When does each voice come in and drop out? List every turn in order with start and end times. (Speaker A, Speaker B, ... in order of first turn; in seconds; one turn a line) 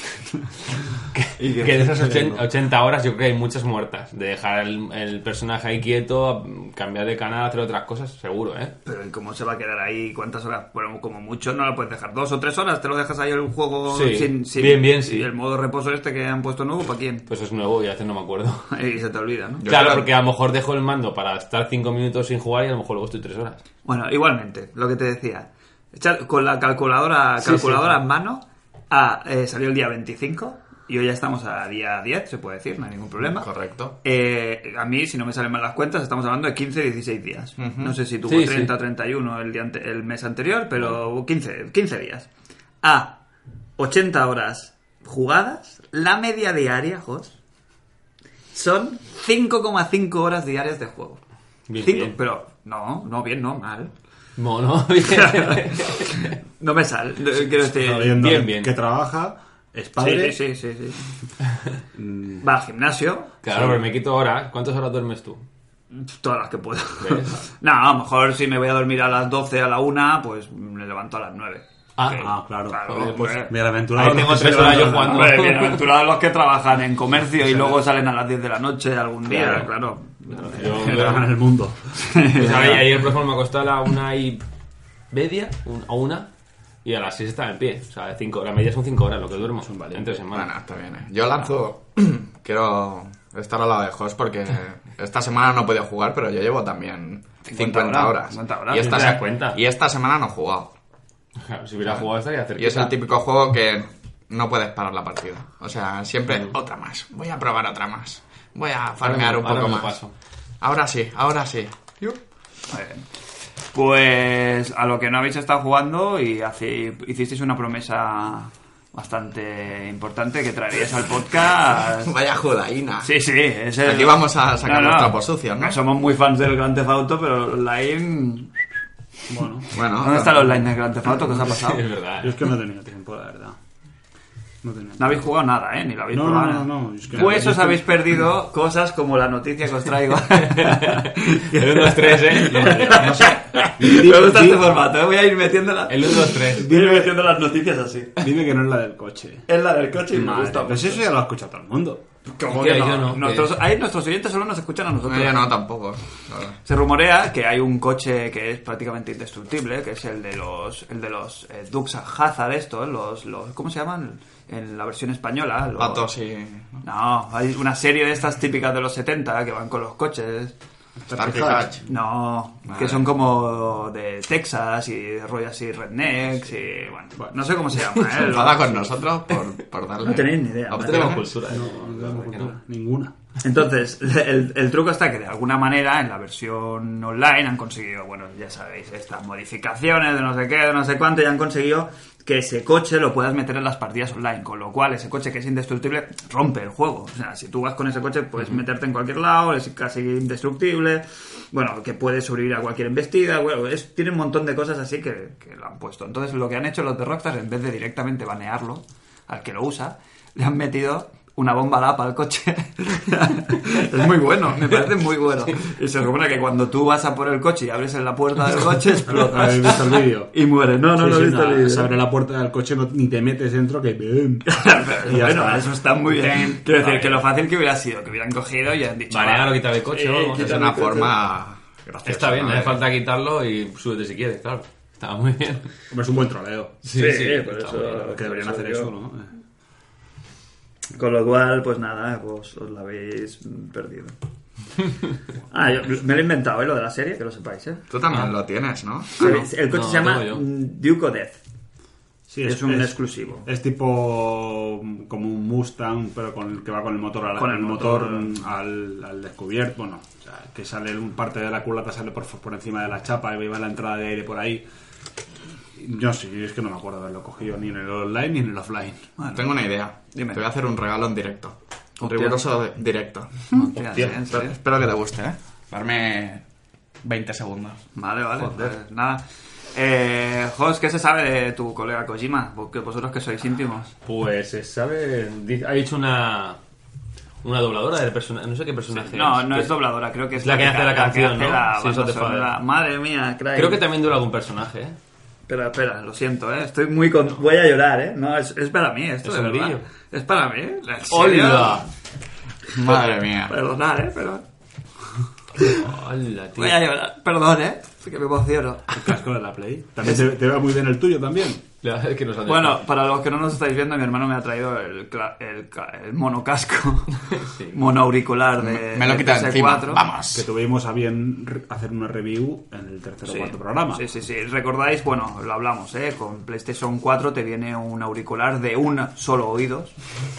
Speaker A: 1.1-8.7
Speaker B: 1.4-1.7
Speaker C: 1.6-2.5
Speaker B: 8.8-17.2
Speaker A: 13.9-15.3
Speaker A: 17.3-18.7
Speaker B: 18.7-19.7
Speaker D: 19.6-20.1
Speaker A: 19.6-23.6
Speaker B: 23.8-33.5
Speaker A: 27.4-28.0
Speaker D: 33.3-34.0
Speaker B: 34.0-42.3
Speaker D: 37.6-37.9
Speaker A: 38.3-38.7
Speaker B: 42.8-43.2
Speaker B: 43.8-47.4
Speaker B: 48.5-51.2
Speaker A: 51.7-52.2
Speaker B: 51.8-53.9
Speaker A: 54.4-56.3
Speaker B: 55.0-58.2
Speaker C: 57.8-60.4
Speaker A: 58.0-58.7
Speaker B: 60.0-61.0
Speaker C: 61.9-62.4
Speaker B: 62.4-63.3
Speaker A: 63.4-65.4
Speaker C: 63.5-63.8
Speaker B: 65.9-81.1
Speaker A: 67.0-67.4
Speaker A: 72.0-72.3
Speaker C: 72.2-75.3
Speaker A: 74.0-75.9
Speaker C: 77.4-77.8
Speaker A: 79.3-79.7
Speaker A: 80.3-81.3
Speaker C: 80.6-82.1
Speaker B: 82.0-83.0
Speaker A: 82.3-84.4
Speaker A: 85.1-86.3
Speaker A: 86.8-90.5
Speaker C: 89.6-90.2
Speaker D: 90.3-100.7
Speaker B: 97.4-99.1
Speaker A: 98.7-99.6
Speaker A: 101.5-102.9
Speaker D: 101.8-110.0
Speaker A: 109.0-110.1
Speaker D: 110.6-112.2
Speaker B: 112.7-113.0
Speaker B: 113.7-122.1
Speaker D: 122.0-123.1
Speaker B: 123.0-128.5
Speaker D: 123.8-125.8
Speaker C: 129.3-129.7
Speaker D: 129.7-130.7
Speaker B: 129.8-131.8
Speaker A: 131.4-132.4
Speaker C: 132.2-133.6
Speaker C: 134.6-135.2
Speaker B: 135.0-148.3
Speaker C: 136.1-138.1
Speaker A: 140.4-143.1
Speaker C: 142.5-144.7
Speaker A: 145.9-146.7
Speaker C: 146.5-147.2
Speaker C: 148.2-149.4
Speaker B: 149.5-151.1
Speaker C: 150.1-152.0
Speaker B: 152.3-155.5
Speaker A: 152.4-153.5
Speaker D: 155.1-156.6
Speaker B: 156.6-166.1
Speaker D: 165.8-166.8
Speaker B: 166.8-170.5
Speaker C: 171.1-171.8
Speaker D: 171.1-171.8
Speaker B: 171.8-178.9
Speaker D: 172.7-173.0
Speaker D: 177.9-181.3
Speaker B: 180.0-181.2
Speaker A: 180.8-182.5
Speaker C: 181.4-183.1
Speaker B: 183.4-221.9
Speaker C: 219.0-220.3
Speaker C: 220.9-227.2
Speaker B: 224.4-231.1
Speaker A: 229.1-230.5
Speaker D: 230.3-232.8
Speaker A: 232.0-235.7
Speaker C: 235.9-236.9
Speaker A: 236.8-238.0
Speaker B: 236.9-238.9
Speaker C: 237.9-239.3
Speaker B: 240.9-244.2
Speaker B: 245.5-247.8
Speaker D: 247.9-249.4
Speaker B: 249.2-251.4
Speaker A: 249.7-250.4
Speaker C: 252.3-264.6
Speaker B: 252.4-253.5
Speaker B: 257.4-258.4
Speaker C: 265.8-269.1
Speaker B: 269.2-269.5
Speaker D: 269.3-276.4
Speaker B: 270.1-270.4
Speaker B: 272.0-272.4
Speaker B: 273.5-274.5
Speaker A: 273.7-274.2
Speaker D: 277.0-277.8
Speaker B: 277.9-279.2
Speaker A: 278.4-278.7
Speaker B: 279.7-283.9
Speaker A: 284.0-286.6
Speaker A: 287.4-289.7
Speaker B: 288.9-293.8
Speaker A: 290.4-292.5
Speaker A: 293.6-294.9
Speaker B: 295.5-301.8
Speaker A: 299.2-299.8
Speaker A: 301.1-301.9
Speaker D: 302.7-303.5
Speaker B: 303.5-304.4
Speaker A: 305.6-306.8
Speaker B: 306.6-309.0
Speaker C: 308.9-311.6
Speaker A: 311.8-312.8
Speaker B: 312.4-320.1
Speaker A: 317.3-317.8
Speaker D: 318.6-320.4
Speaker C: 320.3-324.0
Speaker B: 323.2-329.9